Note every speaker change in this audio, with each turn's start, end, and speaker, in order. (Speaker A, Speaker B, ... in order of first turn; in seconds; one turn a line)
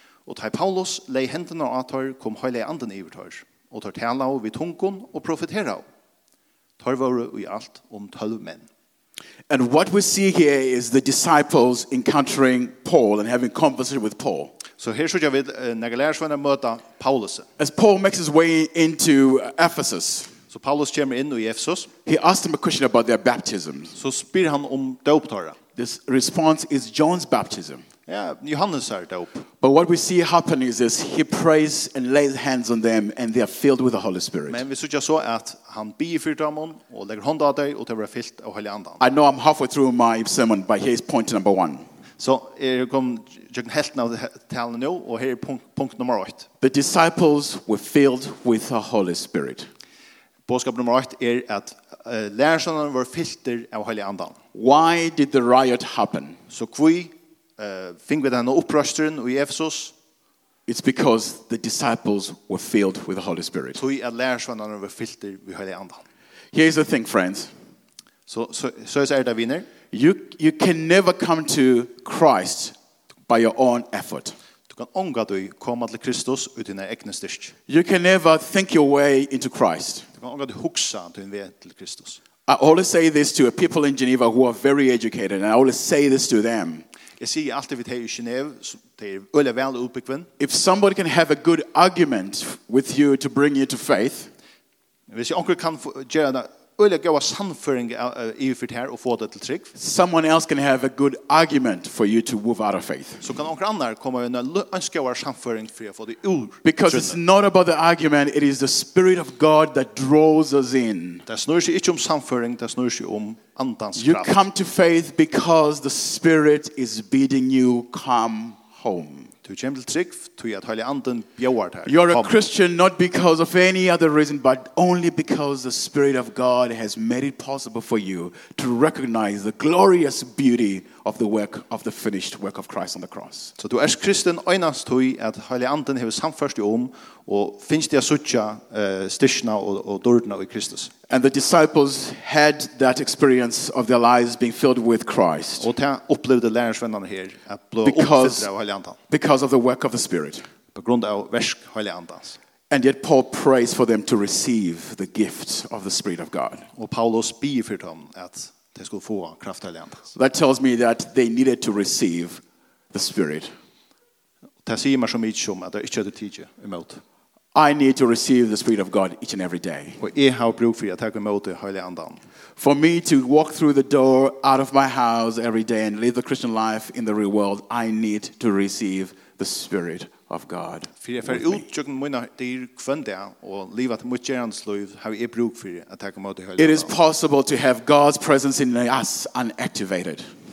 Speaker A: 0.3-5.8
Speaker A: 6.8-8.7
Speaker B: 9.5-14.5
Speaker A: 14.8-17.5
Speaker B: 17.6-20.3
Speaker A: 20.5-21.9
Speaker B: 22.1-23.9
Speaker A: 23.9-25.6
Speaker B: 25.8-27.8
Speaker A: 28.1-29.5
Speaker B: 29.6-34.6
Speaker A: 34.5-39.0
Speaker B: 39.0-41.9
Speaker A: 42.2-46.5
Speaker B: 46.6-49.7
Speaker A: 50.5-54.4
Speaker B: 54.5-56.4
Speaker A: 56.5-59.9
Speaker B: 60.7-63.8
Speaker A: 63.8-66.0
Speaker B: 66.5-67.5
Speaker A: 68.3-69.7
Speaker B: 69.9-72.7
Speaker B: 73.3-74.3
Speaker A: 74.7-77.5
Speaker B: 77.7-80.0
Speaker A: 80.2-82.2
Speaker B: 82.5-86.8
Speaker A: 87.2-90.3
Speaker B: 90.4-94.3
Speaker A: 95.1-99.7
Speaker B: 99.7-103.3
Speaker A: 103.2-107.2
Speaker B: 106.6-111.2
Speaker A: 111.3-114.4
Speaker B: 114.0-119.3
Speaker A: 119.4-122.3
Speaker B: 121.8-133.5
Speaker A: 133.6-140.9
Speaker B: 141.1-145.7
Speaker A: 145.6-149.0
Speaker B: 147.8-148.5
Speaker B: 149.1-150.4
Speaker A: 150.7-152.4
Speaker B: 152.7-156.7
Speaker A: 156.8-160.1
Speaker B: 160.1-162.4
Speaker B: 162.9-163.5
Speaker A: 164.6-167.0
Speaker B: 167.5-170.0
Speaker A: 170.0-172.2
Speaker B: 172.6-181.6
Speaker A: 181.0-186.9
Speaker B: 186.6-190.2